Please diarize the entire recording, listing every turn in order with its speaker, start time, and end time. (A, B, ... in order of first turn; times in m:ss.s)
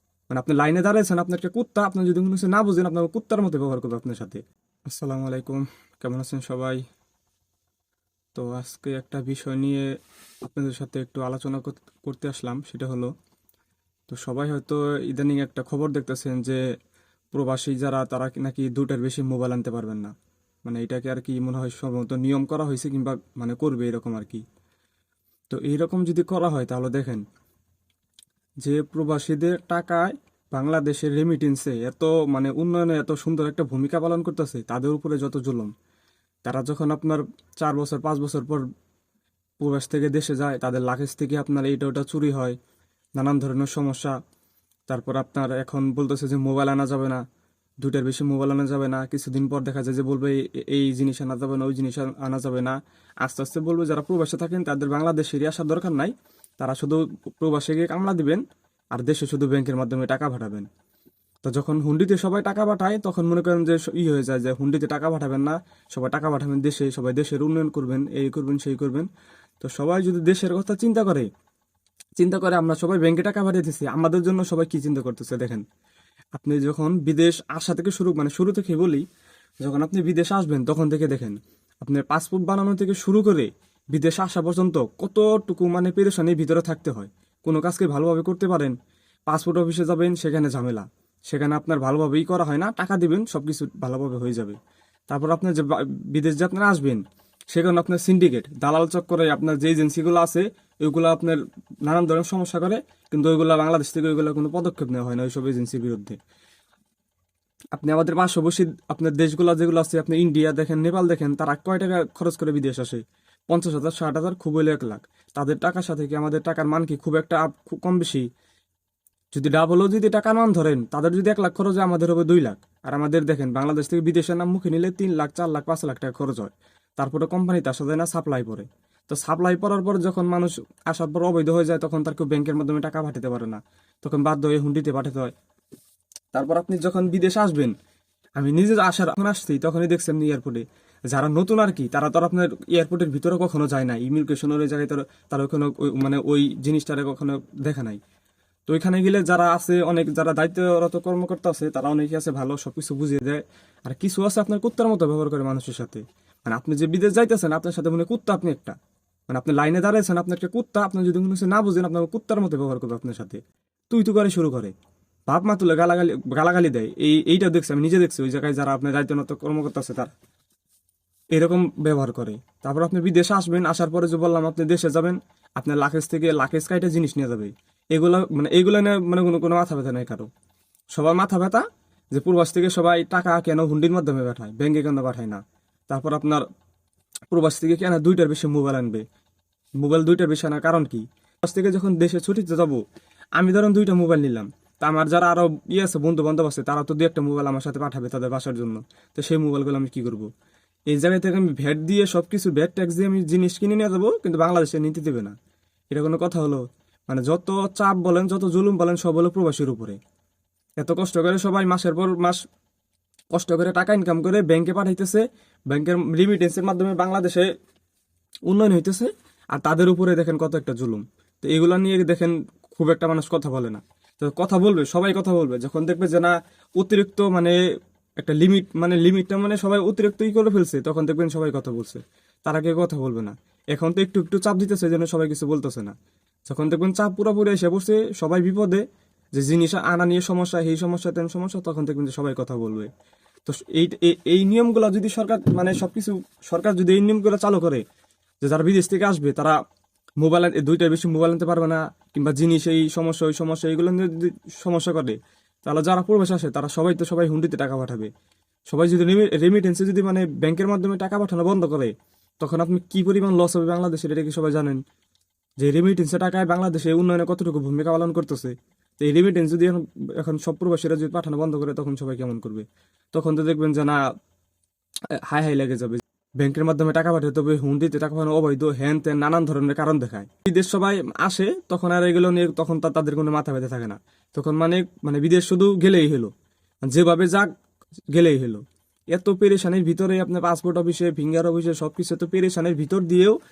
0:00.3-0:06.8 A
0:08.3-0:09.9 A
0:10.4-0:13.1 A
0:14.1-0:16.6 A
0:17.3-0:20.1 A
0:20.6-0:24.4 A
0:25.5-0:27.2 A
0:28.6-0:35.7 A
0:36.4-0:38.6 A
0:39.6-0:42.6 A
0:43.2-0:44.2 A
0:44.9-0:47.2 A
0:47.8-0:58.4 A
0:58.9-1:00.7 A
1:01.4-1:09.1 A
1:09.6-1:11.3 A
1:12.2-1:15.6 A
1:16.4-1:19.0 A
1:19.6-1:28.8 A
1:29.3-1:34.6 A
1:35.1-1:46.2 A
1:47.8-1:58.3 A
1:59.3-2:15.3 A
2:16.3-2:17.7 A
2:18.4-2:28.0 A
2:28.7-2:38.8 A
2:39.3-2:43.4 A
2:43.9-2:44.7 A
2:45.3-2:50.1 A
2:51.3-3:00.3 A
3:00.9-3:06.5 A
3:07.3-3:09.0 A
3:09.8-3:12.8 A
3:13.4-3:20.3 A
3:20.9-3:25.4 A
3:25.9-3:30.0 A
3:30.8-3:32.4 A
3:33.3-3:37.5 A
3:38.5-3:47.6 A
3:48.2-3:56.0 A
3:56.5-3:58.8 A
3:59.4-4:02.9 A
4:03.5-4:07.8 A
4:08.4-4:09.6 A
4:10.2-4:18.1 A
4:18.7-4:24.8 A
4:25.6-4:34.0 A
4:35.1-4:46.3 A
4:46.9-4:47.5 A
4:48.1-4:53.4 A